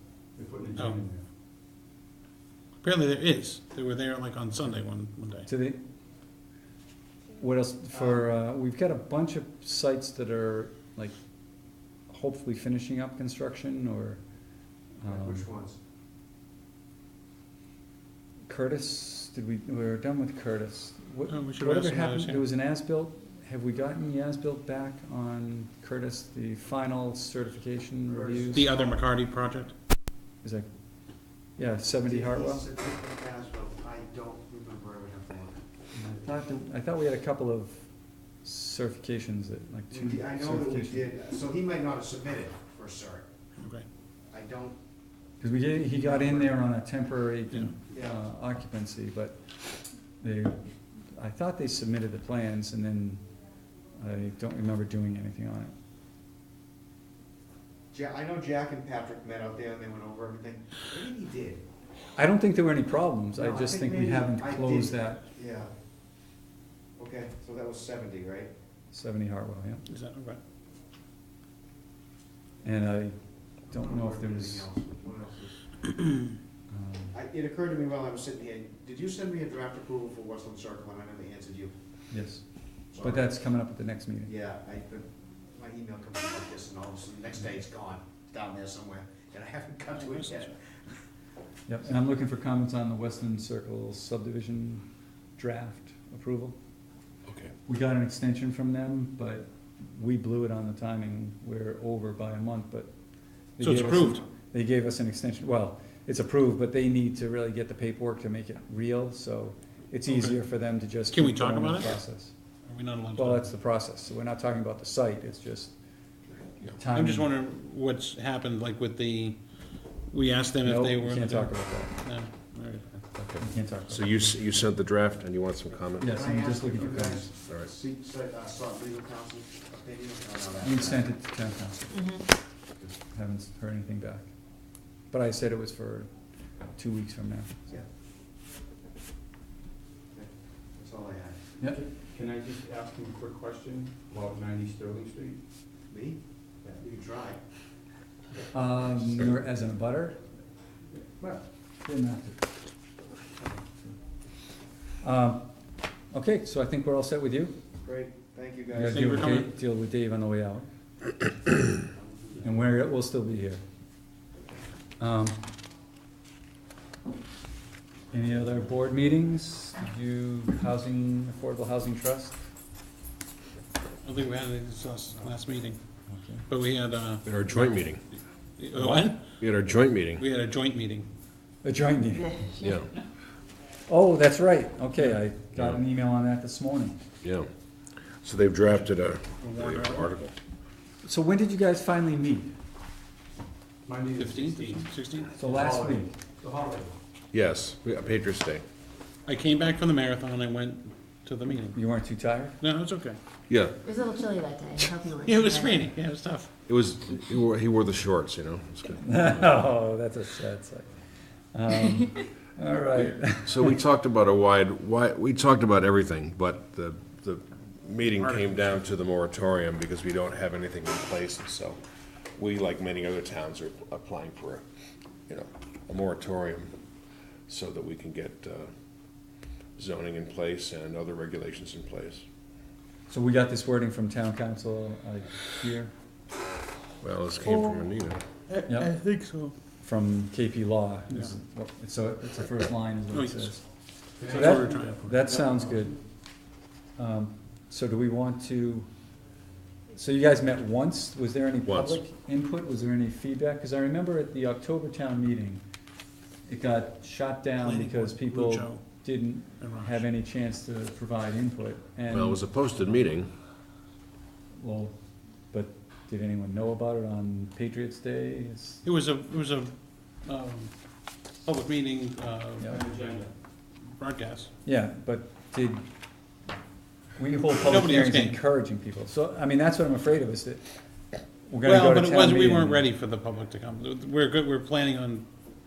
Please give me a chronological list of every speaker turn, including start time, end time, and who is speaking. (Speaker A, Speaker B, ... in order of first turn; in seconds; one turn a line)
Speaker A: 0.4-1.0
Speaker B: 0.8-1.0
Speaker B: 2.8-5.5
Speaker C: 5.5-5.8
Speaker C: 7.4-11.2
Speaker C: 12.1-14.2
Speaker C: 15.0-15.5
Speaker D: 15.1-15.8
Speaker C: 18.5-28.7
Speaker B: 21.3-22.5
Speaker D: 28.1-29.0
Speaker B: 28.5-29.7
Speaker C: 30.4-30.7
Speaker C: 31.6-32.7
Speaker D: 32.0-35.6
Speaker C: 36.0-37.9
Speaker C: 38.4-41.1
Speaker D: 39.9-43.3
Speaker B: 43.6-43.9
Speaker D: 44.3-44.8
Speaker C: 45.4-49.4
Speaker D: 45.8-46.6
Speaker D: 47.9-48.2
Speaker C: 50.2-50.6
Speaker C: 51.1-53.2
Speaker C: 54.0-55.7
Speaker D: 57.9-61.6
Speaker C: 62.2-65.3
Speaker D: 63.3-65.7
Speaker D: 67.0-68.5
Speaker C: 68.9-69.8
Speaker B: 69.9-70.4
Speaker C: 72.6-74.7
Speaker D: 73.7-75.9
Speaker C: 76.7-77.2
Speaker D: 77.1-81.8
Speaker C: 82.1-84.3
Speaker D: 82.9-83.3
Speaker D: 84.2-90.7
Speaker B: 90.0-90.4
Speaker C: 91.7-96.6
Speaker E: 97.3-97.5
Speaker C: 97.7-102.9
Speaker C: 103.6-112.3
Speaker B: 103.6-104.2
Speaker B: 110.1-110.4
Speaker B: 111.1-112.0
Speaker B: 112.7-113.5
Speaker C: 113.2-115.8
Speaker C: 116.6-117.3
Speaker B: 116.9-119.4
Speaker B: 120.1-122.9
Speaker C: 120.6-122.0
Speaker C: 123.4-124.3
Speaker E: 123.9-126.3
Speaker C: 126.0-127.3
Speaker D: 126.0-131.1
Speaker C: 130.6-132.2
Speaker F: 131.9-132.2
Speaker C: 133.1-134.3
Speaker C: 135.1-136.1
Speaker C: 136.7-137.6
Speaker D: 140.1-141.4
Speaker A: 141.8-145.4
Speaker D: 145.9-146.2
Speaker D: 146.8-147.4
Speaker C: 148.5-150.2
Speaker C: 151.2-152.4
Speaker C: 155.0-155.5
Speaker C: 156.1-157.6
Speaker D: 157.8-159.1
Speaker C: 158.7-160.7
Speaker B: 158.8-159.5
Speaker C: 162.4-163.6
Speaker C: 165.0-165.5
Speaker C: 168.1-172.4
Speaker B: 174.0-175.8
Speaker C: 176.1-176.4
Speaker B: 176.5-177.9
Speaker E: 177.3-178.0
Speaker B: 178.6-179.2
Speaker C: 178.8-179.2
Speaker E: 179.4-180.2
Speaker B: 180.2-181.1
Speaker C: 181.6-182.5
Speaker F: 182.3-182.7
Speaker E: 182.6-182.9
Speaker C: 183.9-187.0
Speaker E: 185.6-185.8
Speaker E: 187.2-187.5
Speaker E: 188.2-190.3
Speaker B: 189.4-190.1
Speaker C: 191.0-192.5
Speaker A: 193.9-194.9
Speaker B: 194.2-195.4
Speaker C: 195.4-196.1
Speaker A: 195.5-196.9
Speaker E: 197.3-198.6
Speaker B: 199.3-201.8
Speaker C: 201.8-202.6
Speaker B: 202.6-203.2
Speaker E: 203.5-203.8
Speaker F: 203.8-205.8
Speaker B: 205.2-206.5
Speaker E: 206.7-209.4
Speaker C: 209.0-213.8
Speaker E: 213.0-221.8
Speaker B: 218.2-218.8
Speaker E: 222.4-224.6
Speaker E: 225.3-226.8
Speaker E: 227.5-228.7
Speaker E: 229.8-232.2
Speaker C: 233.1-235.9
Speaker E: 237.0-238.2
Speaker B: 238.5-239.5
Speaker C: 238.7-238.9
Speaker C: 239.8-243.6
Speaker B: 243.1-243.5
Speaker B: 244.2-245.3
Speaker C: 244.2-246.0
Speaker C: 247.0-248.9
Speaker C: 249.9-255.6
Speaker E: 251.7-252.0
Speaker C: 256.5-263.1
Speaker B: 257.6-258.9
Speaker B: 259.6-260.1
Speaker E: 262.1-263.3
Speaker C: 264.6-265.0
Speaker C: 265.5-268.8
Speaker B: 268.8-269.7
Speaker B: 270.2-270.7
Speaker B: 271.4-272.7
Speaker C: 272.6-272.9
Speaker A: 272.7-273.3
Speaker B: 274.0-274.5
Speaker C: 274.6-275.9
Speaker C: 277.2-280.7
Speaker B: 277.6-278.4
Speaker C: 281.4-282.9
Speaker B: 281.6-285.3